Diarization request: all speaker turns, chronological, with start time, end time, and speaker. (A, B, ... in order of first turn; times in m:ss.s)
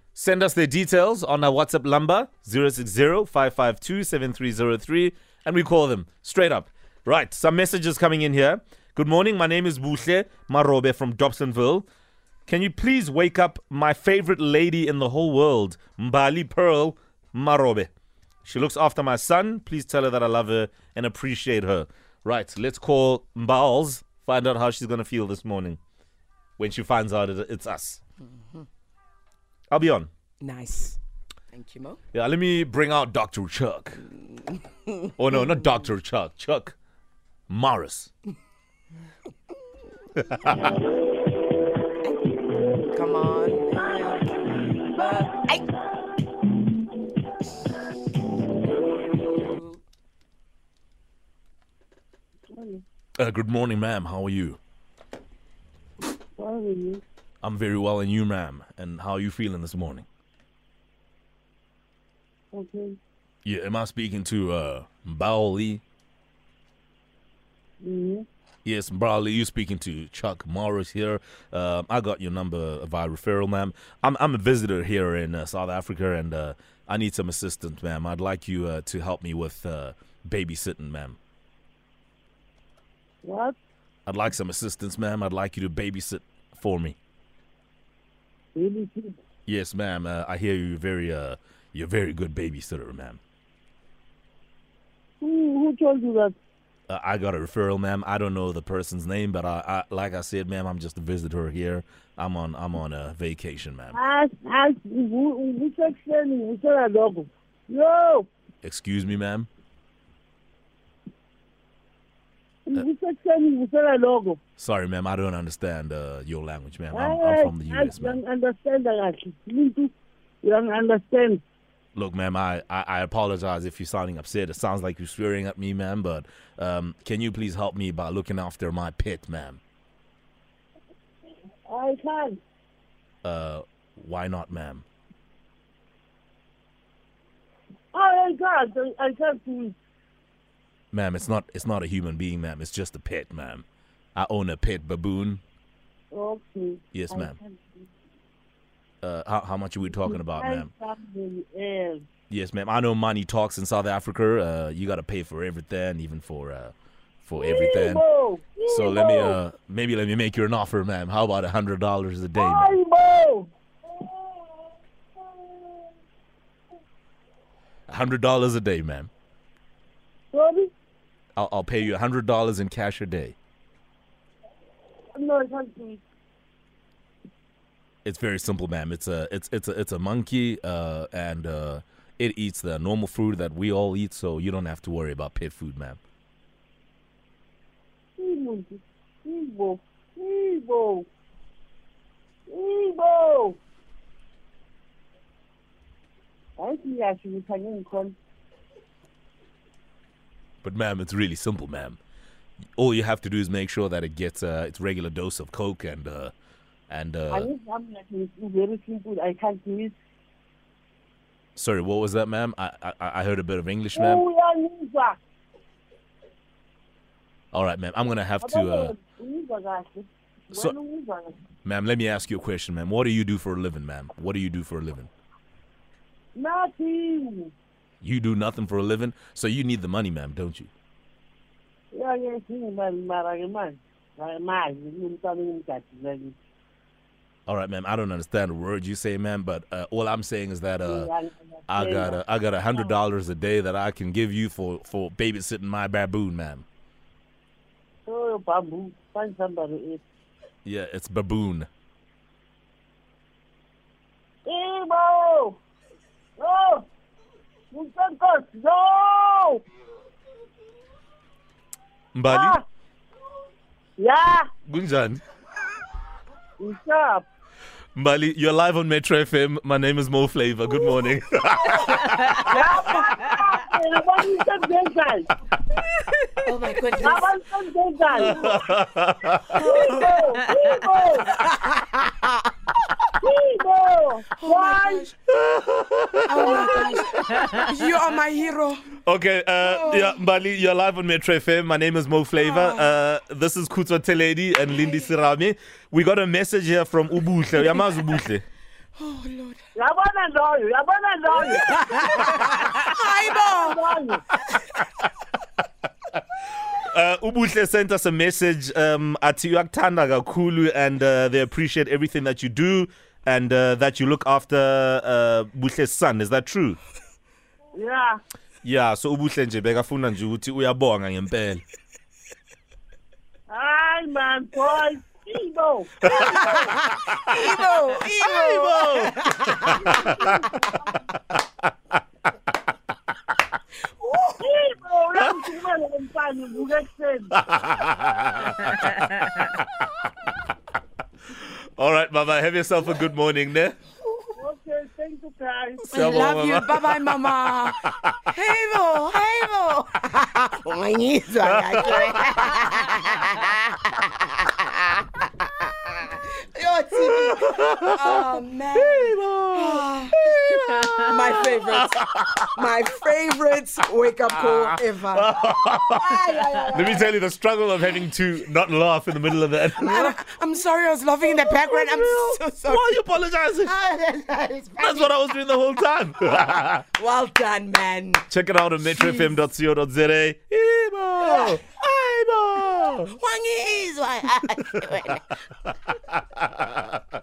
0:00.2-0:11.9 A
0:12.5-0:17.9 A
0:18.4-0:25.8 A
0:26.6-0:28.0 A
0:29.7-0:30.1 A
0:30.4-0:31.0 B
0:31.5-0:32.0 B
0:32.1-0:34.0 A
0:34.4-0:35.1 B
0:35.2-0:36.8 A
0:37.5-0:38.1 A
0:40.2-0:40.7 A
0:42.0-0:42.4 B
0:42.9-0:45.6 B
0:48.8-0:49.8 B
0:52.5-0:52.8 C
0:53.2-0:54.6 A
0:56.4-0:57.0 C
0:57.4-1:00.1 A
1:02.5-1:03.0 C
1:03.4-1:05.8 A
1:07.8-1:08.3 C
1:08.6-1:21.2 A
1:23.2-1:23.6 C
1:24.1-1:27.0 A
1:28.6-1:29.2 C
1:29.5-1:33.2 A
1:35.2-1:36.4 C
1:36.9-1:44.0 A
1:43.9-1:48.3 C
1:48.6-1:49.5 A
1:52.7-1:54.4 C
1:54.6-1:58.2 A
1:56.9-2:01.4 C
2:02.0-2:09.6 A
2:11.7-2:12.4 C
2:13.2-2:14.8 A
2:17.9-2:19.8 C
2:20.9-2:23.6 A
2:24.2-2:25.4 A
2:26.1-2:27.6 C
2:26.9-2:27.4 A
2:29.0-2:30.7 A
2:29.9-2:32.1 C
2:32.3-2:38.0 A
2:37.4-2:39.4 C
2:38.7-2:42.8 A
2:42.4-2:44.6 C
2:45.3-2:45.8 C
2:47.9-2:49.1 A
2:50.3-2:50.7 C
2:51.4-2:53.4 A
2:55.2-2:56.0 C
2:58.0-3:06.0 A
3:08.2-3:11.1 C
3:12.5-3:13.6 C
3:16.6-3:18.2 C
3:20.6-3:22.0 A
3:22.8-3:26.3 A
3:26.9-3:27.5 A
3:27.3-3:30.0 C
3:31.6-3:34.2 A
3:34.0-3:35.2 C
3:37.5-3:38.9 A
3:38.4-3:41.4 C
3:41.6-3:45.1 A
3:46.4-3:47.5 C
3:48.0-3:50.7 A
3:51.9-3:56.4 C
3:57.5-4:01.1 A
4:00.8-4:02.2 C
4:01.7-4:06.6 A
4:08.1-4:10.0 C
4:10.6-4:11.7 A
4:14.5-4:15.6 C
4:16.4-4:16.9 C
4:17.7-4:19.6 C
4:22.2-4:22.6 A
4:22.3-4:22.6 C
4:24.0-4:24.5 C
4:24.7-4:25.2 A
4:26.6-4:27.3 C
4:28.0-4:32.2 A
4:32.3-4:35.3 C
4:32.5-4:33.1 B
4:36.3-4:37.3 B
4:37.0-4:38.6 C
4:38.1-4:40.0 A
4:39.5-4:40.2 B
4:39.6-4:41.4 C
4:41.4-4:42.3 B
4:43.2-4:45.1 C
4:44.4-4:45.2 B
4:45.3-4:47.6 A
4:46.3-4:48.9 B
4:46.4-4:46.9 C
4:49.0-4:58.4 A
4:49.6-4:50.2 B
4:52.4-4:52.9 B
4:59.0-4:59.6 B
4:59.8-5:04.2 C
5:01.5-5:03.8 B
5:06.8-5:16.8 A
5:17.8-5:18.2 C
5:18.6-5:21.6 A
5:23.5-5:26.7 C
5:26.0-5:29.2 A
5:26.2-5:30.7 B
5:29.7-5:30.8 C
5:29.8-5:30.2 A
5:34.0-5:34.4 B
5:34.4-5:37.3 C
5:37.3-5:40.1 A
5:41.3-5:43.8 A
5:44.4-5:46.2 C
5:45.8-5:48.2 A
5:45.9-5:54.9 B
5:51.4-5:52.5 A
5:55.4-6:00.2 B
5:56.9-6:02.5 A
6:00.7-6:07.1 B
6:04.4-6:10.2 A
6:09.8-6:13.0 B
6:11.4-6:13.7 A
6:13.6-6:15.2 B
6:14.8-6:16.9 A
6:17.0-6:18.3 B
6:18.3-6:23.2 A
6:18.9-6:19.3 B
6:23.1-6:25.2 B
6:26.1-6:26.9 A